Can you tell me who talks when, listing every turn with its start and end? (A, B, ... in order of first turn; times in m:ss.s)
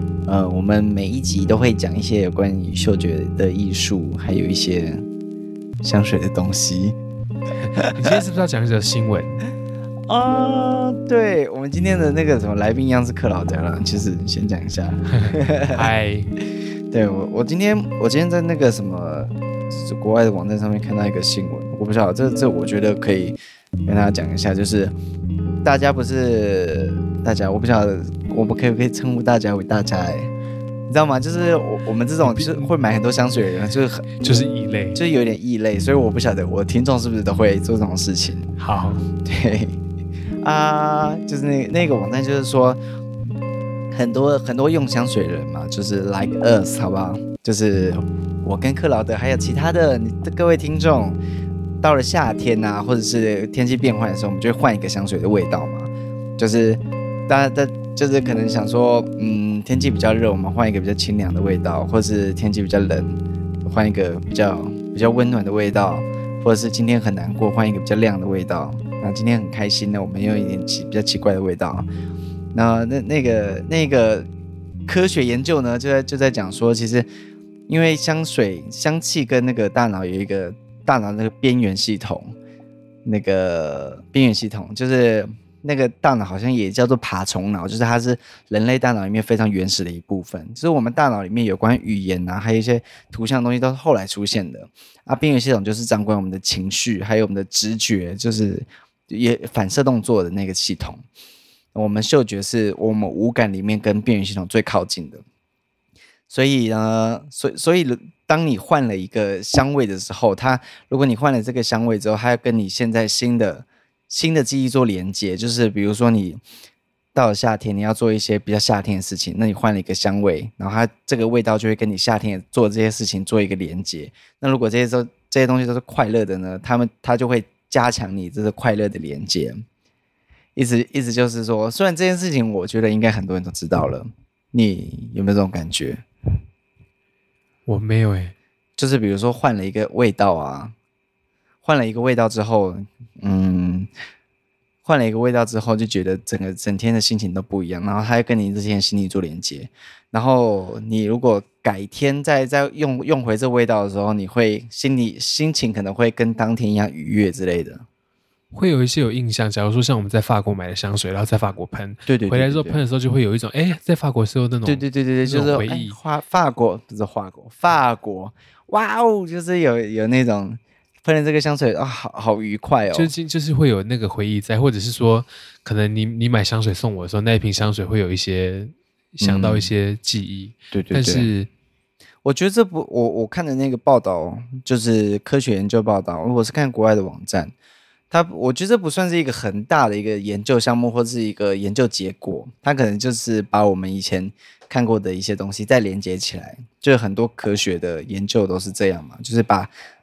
0:00.3-0:05.0 A
0:05.8-0:07.0 A
0:07.6-0:09.4 B
0:07.8-0:08.1 A
0:10.1-0:15.8 A
0:15.1-0:16.3 B
0:16.9-0:24.9 A
0:25.6-0:30.3 A
0:30.9-0:34.1 A
0:32.2-0:32.7 B
0:34.2-0:35.0 B
0:35.0-0:38.6 A
0:38.6-0:39.0 B
0:39.2-0:39.8 A
0:40.4-0:42.8 A
0:43.9-0:51.2 A
0:51.8-1:11.9 A
1:12.5-1:14.3 A
1:14.9-1:17.1 A
1:17.7-1:22.3 A
1:23.0-1:41.0 A
1:41.8-1:45.2 A
1:46.3-1:56.4 A
1:57.2-2:09.6 A
2:10.6-2:16.0 A
2:17.7-2:18.4 B
2:18.8-2:20.8 A
2:21.6-2:23.9 A
2:24.8-2:37.8 A
2:38.5-2:46.0 B
2:42.1-2:42.8 A
2:44.6-2:53.1 A
2:52.9-3:01.5 B
2:59.2-2:59.7 A
3:00.7-3:01.3 A
3:02.2-3:07.5 A
3:08.1-3:19.7 A